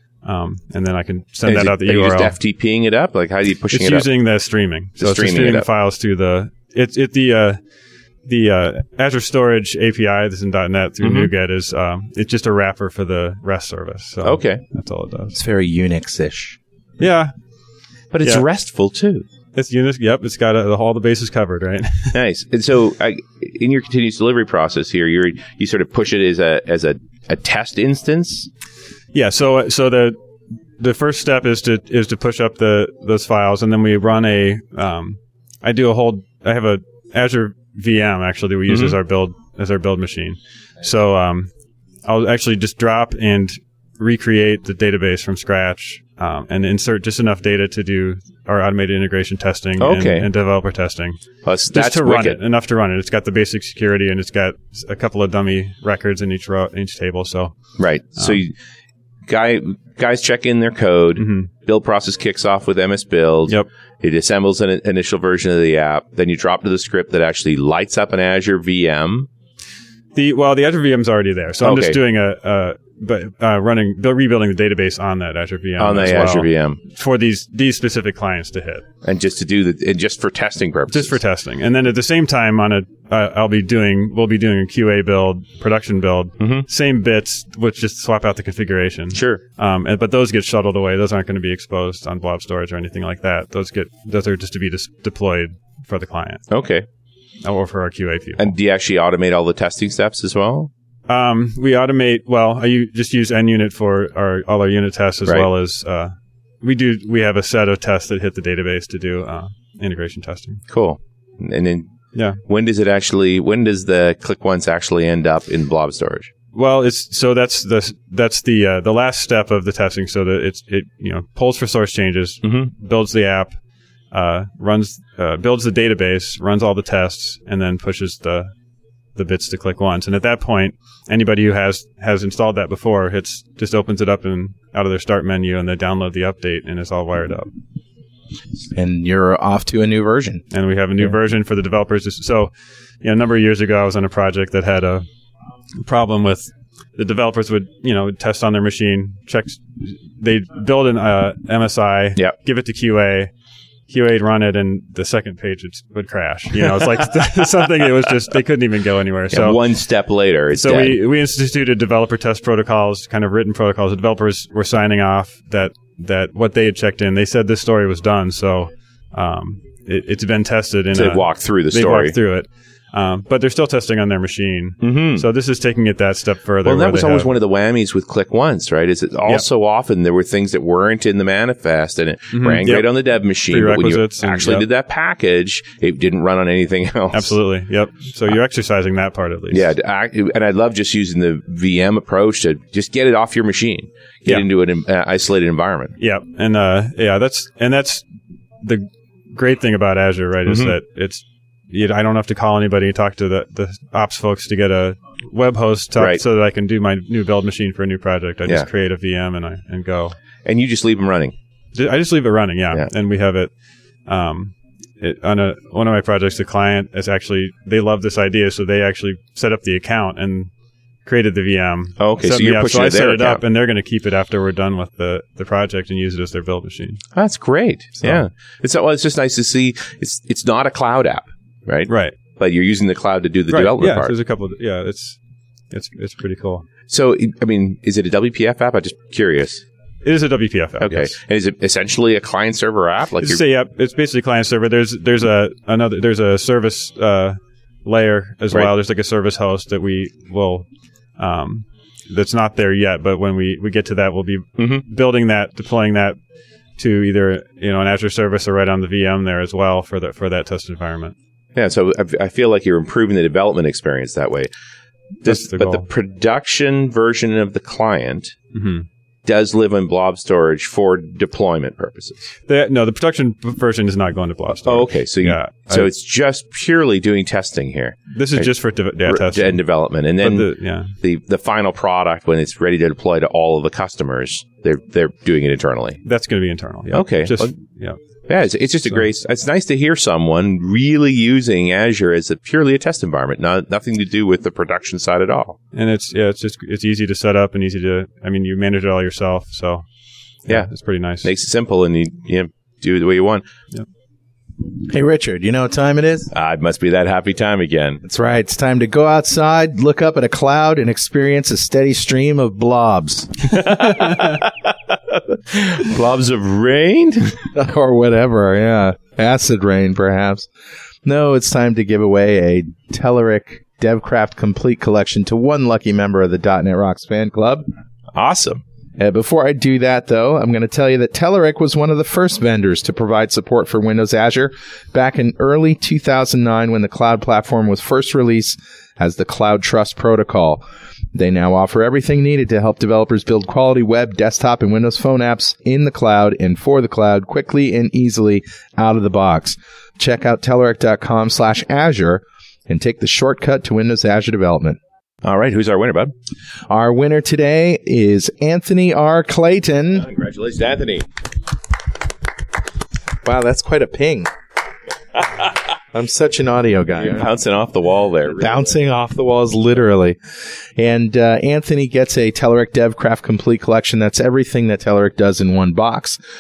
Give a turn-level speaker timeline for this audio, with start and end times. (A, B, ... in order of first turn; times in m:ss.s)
0:00.2-0:02.4 A
0:01.5-0:04.1 B
0:03.7-0:07.6 A
0:05.0-0:05.7 B
0:08.3-0:15.4 A
0:11.0-0:11.3 B
0:14.2-0:14.6 B
0:15.3-0:16.6 C
0:17.0-0:17.3 A
0:18.1-0:19.3 B
0:19.6-0:22.2 A
0:22.1-0:28.5 B
0:29.1-0:30.2 A
0:30.8-0:41.5 A
0:38.7-0:39.0 B
0:42.1-0:57.5 A
0:49.8-0:50.3 B
0:51.4-0:52.4 B
0:57.8-0:58.5 B
0:59.3-1:09.3 B
1:01.2-1:01.5 A
1:10.2-1:18.8 A
1:11.6-1:12.0 B
1:15.8-1:16.8 B
1:19.0-1:21.2 B
1:20.9-1:36.4 A
1:26.4-1:26.6 B
1:29.1-1:29.4 B
1:36.5-1:36.9 B
1:37.4-1:38.6 A
1:38.4-1:40.7 B
1:41.1-1:50.6 A
1:50.7-1:51.9 B
1:52.5-1:56.3 B
1:56.5-2:03.6 A
2:02.4-2:02.7 B
2:04.1-2:08.5 A
2:09.2-2:17.5 A
2:18.7-2:20.4 C
2:20.5-2:22.5 A
2:23.0-2:25.0 A
2:25.8-2:33.3 A
2:33.9-2:39.6 A
2:39.3-2:41.0 B
2:40.5-2:57.3 A
2:50.9-2:52.2 B
2:54.8-2:55.3 B
2:56.6-3:07.3 B
3:02.3-3:02.9 A
3:03.5-3:04.7 A
3:07.1-3:09.7 A
3:09.5-3:16.0 B
3:16.0-3:18.0 A
3:18.6-3:30.2 A
3:20.5-3:20.7 B
3:26.0-3:26.2 B
3:30.4-3:31.3 B
3:31.8-3:33.5 A
3:34.1-3:40.5 A
3:41.0-3:47.0 A
3:42.0-3:43.4 B
3:47.2-3:54.1 B
3:51.9-3:52.2 A
3:53.5-3:55.2 A
3:55.7-3:56.6 A
3:56.9-3:59.6 B
4:00.0-4:01.1 A
4:00.8-4:03.4 B
4:03.2-4:10.7 A
4:11.2-4:16.2 A
4:14.6-4:14.8 B
4:16.8-4:21.2 A
4:21.6-4:24.5 B
4:25.2-4:28.4 B
4:25.2-4:25.9 A
4:28.5-4:28.9 A
4:29.2-4:32.2 B
4:32.5-4:35.9 A
4:34.7-4:38.5 B
4:38.1-4:39.6 A
4:39.1-4:46.0 B
4:40.2-4:40.9 A
4:46.0-4:48.0 A
4:46.9-4:47.5 B
4:48.3-4:55.6 B
4:55.7-4:59.8 A
5:00.5-5:01.3 A
5:01.2-5:03.4 B
5:04.9-5:06.3 C
5:06.3-5:08.0 B
5:08.0-5:13.6 C
5:13.5-5:14.7 B
5:15.3-5:17.5 B
5:17.5-5:20.5 C
5:21.0-5:27.7 C
5:28.2-5:28.6 B
5:29.0-5:40.6 C
5:41.1-5:54.8 C
5:55.2-5:56.1 B
5:56.7-6:00.1 C
6:00.0-6:01.1 B
6:03.2-6:04.3 C
6:05.9-6:07.3 C
6:07.0-6:08.7 B
6:08.4-6:10.2 C
6:10.8-6:16.2 C